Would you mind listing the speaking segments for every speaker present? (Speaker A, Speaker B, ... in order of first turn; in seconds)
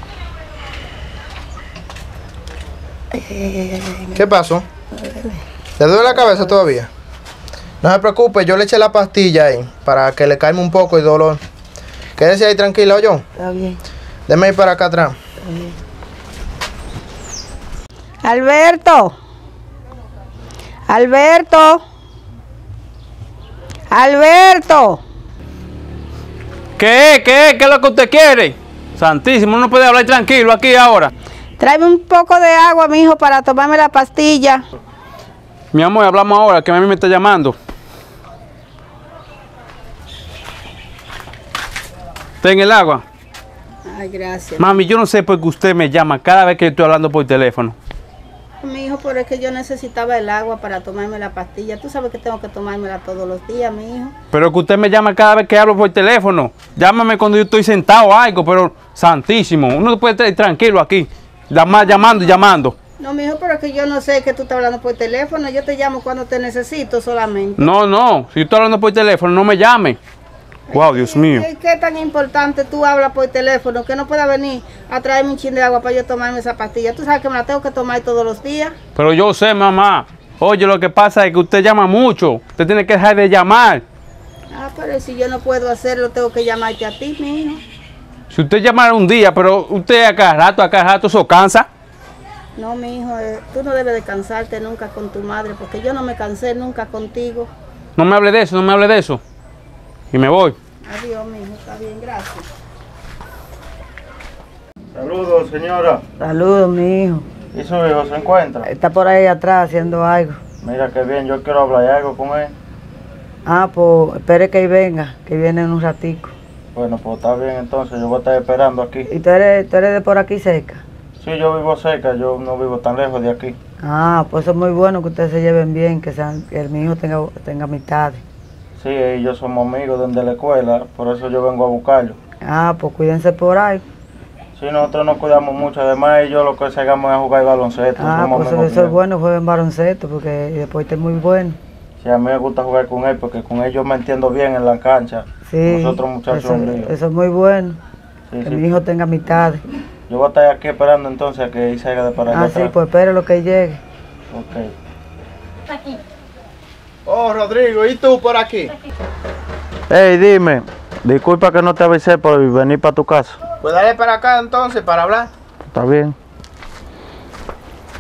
Speaker A: 3.1-4.2, 5.0-5.3, 6.1-6.5, 13.4-13.8, 15.4-15.8, 106.2-107.3, 108.6-110.4, 113.5-116.3, 119.1-120.8, 123.8-128.2, 132.4-133.8, 138.0-141.6, 145.5-147.8, 148.4-149.6, 152.3-153.8
Speaker B: 4.2-4.7, 5.8-6.9, 7.8-11.4, 12.2-13.2, 14.3-15.2, 157.1-158.7, 163.6-165.3
Speaker C: 18.2-19.2, 20.9-21.8, 23.9-25.0, 31.6-34.6, 43.9-44.8, 48.6-54.1, 61.9-62.2, 63.0-67.7, 70.7-78.8, 84.5-87.6, 92.6-97.5, 100.9-102.5
Speaker D: 26.8-31.1, 35.7-37.6, 42.4-43.0, 44.6-47.8, 54.3-62.8, 67.6-70.0, 70.7-71.5, 79.0-83.8, 88.3-91.7, 98.0-99.2, 100.1-100.6
Speaker E: 104.9-106.0, 107.5-108.7, 110.6-112.5, 116.8-119.1, 121.2-123.6, 128.8-132.2, 134.6-139.0, 142.0-146.9, 148.3-148.8, 150.1-152.7, 154.3-154.7, 159.9-163.4, 165.6-166.2